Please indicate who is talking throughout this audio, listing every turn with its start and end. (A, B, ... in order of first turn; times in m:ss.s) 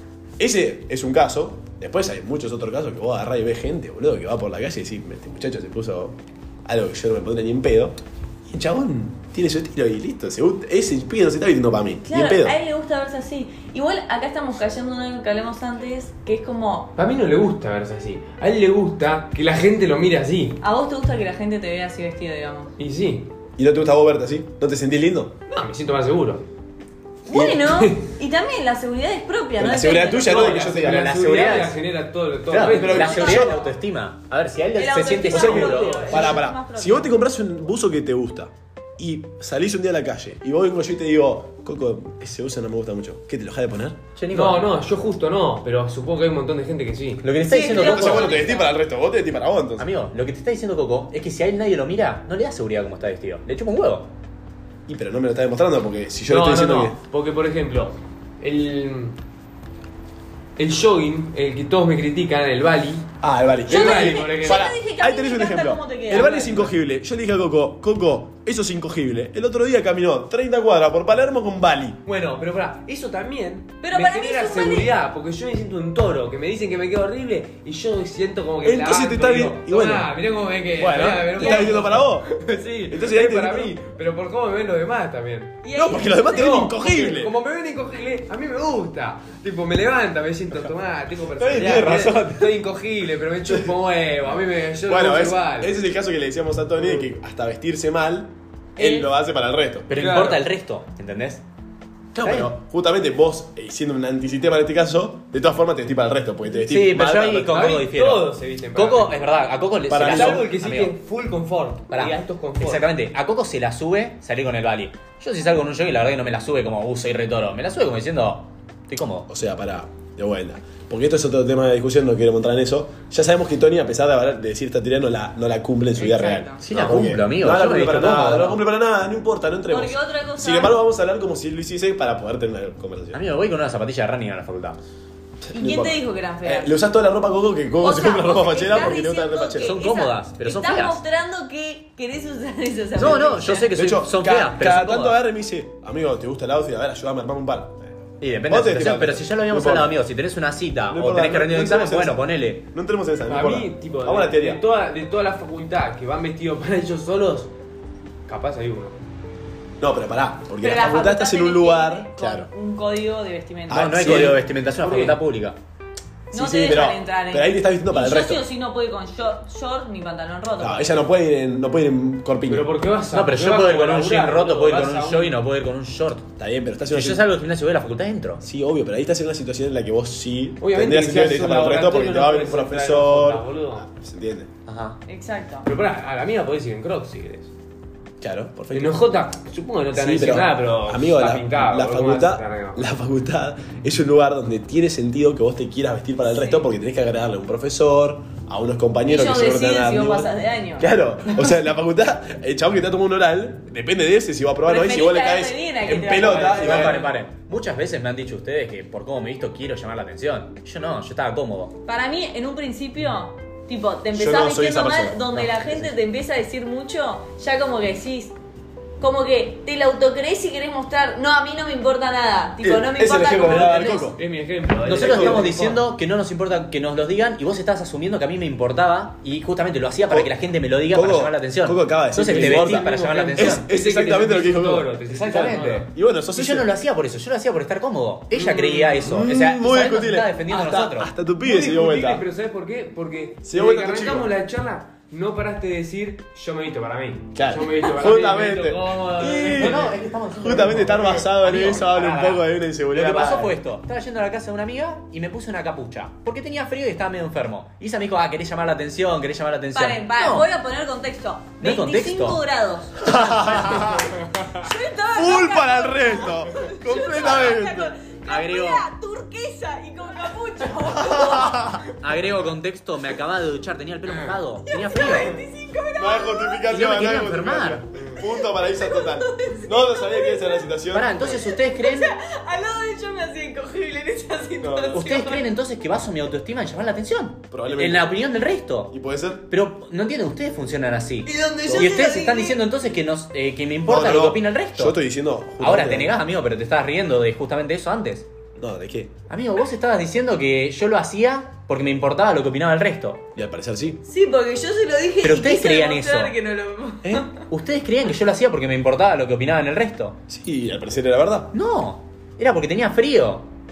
0:00.4-0:12.6 A
0:12.1-0:16.9 B
0:17.0-0:20.6 C
0:20.6-0:22.7 B
0:22.8-0:23.3 C
0:23.6-0:25.3 A
0:25.5-0:26.4 C
0:27.3-0:30.5 B
0:27.3-0:27.6 A
0:27.6-0:28.0 C
0:29.6-0:31.1 A
0:30.2-0:33.2 C
0:30.7-0:31.8 D
0:32.5-0:36.3 D
0:32.7-0:33.6 A
0:32.9-0:33.7 B
0:34.8-0:37.1 B
0:35.3-0:44.0 A
0:35.8-0:36.3 C
0:44.2-0:44.6 D
0:44.3-0:47.2 C
0:47.2-0:48.4 D
0:47.5-0:48.7 B
0:47.7-0:49.9 A
0:49.8-0:54.1 D
0:54.9-0:57.0 A
0:56.3-0:59.2 C
1:00.6-1:03.1 C
1:03.2-1:12.0 A
1:03.6-1:04.7 C
1:03.7-1:06.3 B
1:06.1-1:06.8 C
1:12.0-1:25.6 C
1:13.8-1:14.9 B
1:18.6-1:20.1 A
1:20.8-1:23.8 A
1:21.4-1:21.9 B
1:25.6-1:26.9 B
1:25.7-1:27.3 A
1:26.2-1:35.7 C
1:31.4-1:32.3 A
1:31.5-1:32.3 D
1:34.9-1:39.9 A
1:39.9-1:41.4 D
1:39.9-1:40.4 C
1:42.1-1:47.6 A
1:42.2-1:42.5 D
1:46.6-1:51.0 D
1:47.5-1:49.4 C
1:49.9-1:50.5 A
1:50.0-1:52.8 C
1:51.9-1:59.3 D
1:59.3-2:13.2 A
2:06.0-2:06.6 B
2:06.6-2:08.6 D
2:09.7-2:10.8 B
2:13.1-2:14.8 D
2:15.4-2:19.8 A
2:15.5-2:16.7 B
2:17.8-2:23.7 B
2:19.6-2:21.0 D
2:23.0-2:25.2 D
2:23.7-2:27.9 A
2:28.2-2:32.6 D
2:28.5-2:29.9 A
2:30.9-2:34.6 A
2:33.3-2:37.5 C
2:38.3-2:39.0 C
2:39.8-2:42.5 A
2:40.6-2:44.2 B
2:43.7-2:44.4 A
2:43.7-2:45.6 D
2:44.8-2:45.2 C
2:46.3-2:48.4 A
2:46.3-2:51.0 B
2:50.6-2:52.7 A
2:52.5-2:55.4 C
2:53.1-2:56.3 D
2:56.4-2:57.2 A
2:56.9-2:58.4 D
2:58.4-3:04.5 A
3:00.6-3:03.9 C
3:04.7-3:05.0 D
3:05.1-3:05.7 B
3:05.6-3:07.5 C
3:08.2-3:09.0 A
3:08.7-3:12.9 C
3:09.9-3:27.0 A
3:16.3-3:16.6 B
3:19.0-3:21.5 B
3:24.6-3:27.0 B
3:26.2-3:27.0 C
3:26.4-3:31.8 D
3:31.8-3:38.4 B
3:34.1-3:35.4 A
3:35.4-3:35.8 D
3:39.0-3:44.0 B
3:42.6-3:44.2 A
3:43.4-3:44.1 D
3:44.1-3:45.8 C
3:44.8-3:53.7 D
3:44.9-3:45.5 A
3:50.9-3:56.7 A
3:52.2-3:55.9 C
3:55.1-4:01.1 D
3:58.3-3:59.1 C
3:59.0-4:02.2 A
4:01.4-4:10.0 C
4:03.4-4:04.3 A
4:07.3-4:13.6 A
4:09.4-4:20.4 D
4:19.7-4:31.9 B
4:21.6-4:22.4 D
4:23.0-4:24.2 A
4:25.1-4:27.9 A
4:28.3-4:28.8 D
4:30.9-4:31.8 A
4:31.9-4:35.4 D
4:34.6-4:36.7 B
4:36.0-4:41.5 A
4:36.7-4:37.8 D
4:38.2-4:40.7 B
4:40.9-4:42.1 D
4:41.3-4:45.5 B
4:44.6-4:45.1 A
4:44.9-4:48.9 D
4:47.5-4:48.2 A
4:48.9-4:49.5 A
4:49.5-4:55.0 D
4:51.3-4:52.0 C
4:51.4-4:52.6 B
4:51.6-4:52.1 A
4:53.9-4:56.2 A
4:55.6-4:58.3 D
4:58.6-4:59.1 A
4:59.3-5:03.3 D
5:03.3-5:04.0 A
5:04.0-5:07.4 B
5:05.2-5:06.3 D
5:07.5-5:10.2 D
5:10.3-5:11.5 A
5:11.5-5:13.5 D